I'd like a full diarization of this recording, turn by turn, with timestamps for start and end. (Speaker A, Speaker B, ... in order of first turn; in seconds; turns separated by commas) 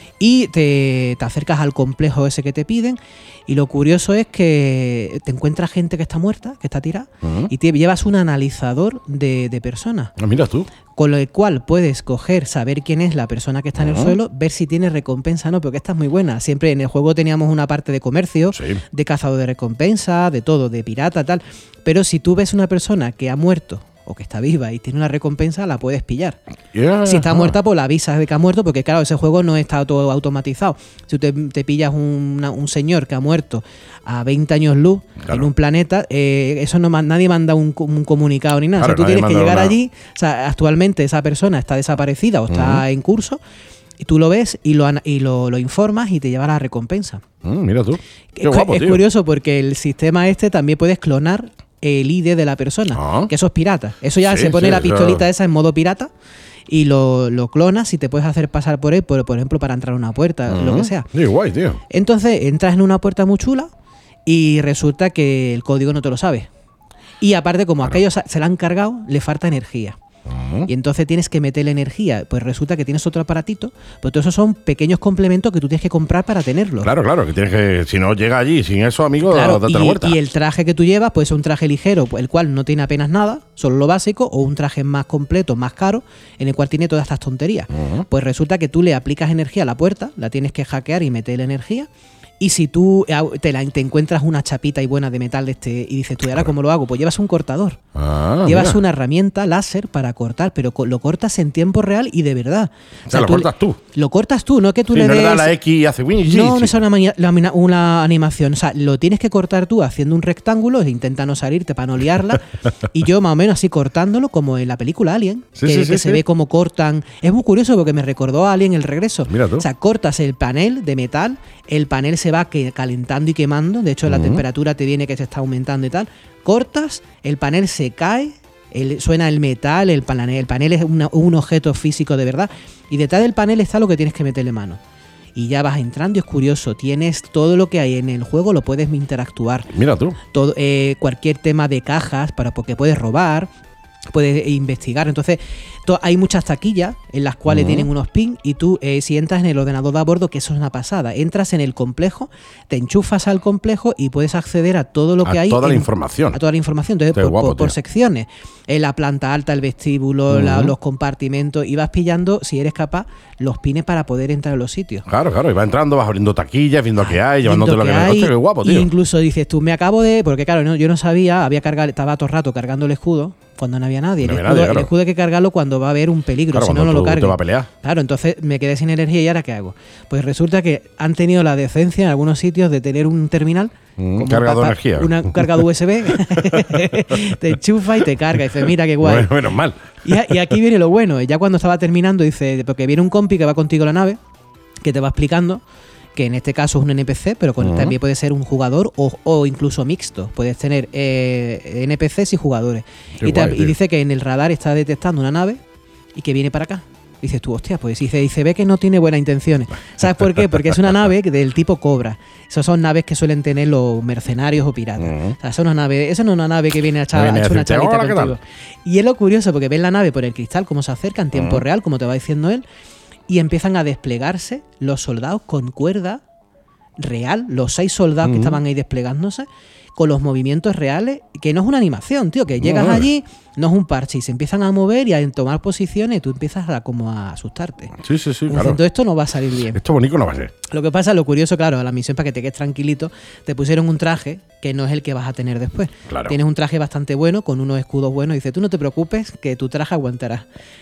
Speaker A: 0.2-10.1, Speaker B: 7.2-7.5, Speaker B: 10.2-10.7, Speaker A: 10.9-26.4, Speaker B: 13.8-14.2, Speaker B: 18.5-18.8, Speaker B: 26.7-27.6, Speaker A: 27.0-43.4, Speaker B: 38.8-39.7, Speaker B: 42.5-42.8, Speaker A: 44.0-47.2, Speaker B: 47.4-49.0, Speaker A: 48.3-56.1, Speaker B: 52.9-53.3, Speaker B: 54.2-55.2, Speaker A: 56.7-61.1, Speaker B: 60.5-61.8, Speaker A: 61.9-63.7, Speaker A: 64.2-66.5, Speaker A: 67.2-70.0, Speaker B: 70.3-70.7, Speaker A: 70.7-76.9, Speaker B: 76.8-80.2, Speaker A: 79.2-91.9, Speaker B: 87.7-88.0, Speaker A: 92.4-97.8, Speaker B: 97.9-98.8, Speaker A: 98.4-105.5, Speaker B: 103.1-103.8, Speaker B: 104.9-106.8, Speaker A: 106.3-134.8, Speaker B: 115.5-116.2, Speaker B: 119.3-119.7, Speaker B: 124.1-124.4, Speaker A: 135.3-139.7, Speaker B: 139.7-140.2, Speaker A: 140.3-143.5, Speaker A: 144.1-165.1, Speaker B: 147.5-147.9, Speaker B: 155.2-156.4, Speaker B: 157.1-157.7, Speaker B: 160.3-160.7, Speaker B: 165.1-168.9, Speaker A: 167.0-189.3, Speaker B: 174.2-174.9, Speaker B: 176.5-177.7, Speaker B: 184.0-186.7, Speaker B: 189.0-190.3, Speaker A: 190.0-194.2, Speaker A: 194.8-195.6, Speaker A: 196.1-205.6, Speaker B: 197.6-197.9, Speaker B: 203.2-203.7, Speaker A: 206.1-222.6, Speaker B: 210.4-210.7, Speaker B: 215.0-215.3, Speaker B: 217.1-218.3, Speaker B: 221.3-221.6, Speaker A: 223.3-226.2, Speaker A: 227.0-239.8, Speaker B: 228.2-228.6, Speaker B: 232.6-233.1, Speaker B: 238.0-238.8, Speaker B: 239.7-240.5, Speaker A: 240.7-250.4, Speaker B: 246.1-246.3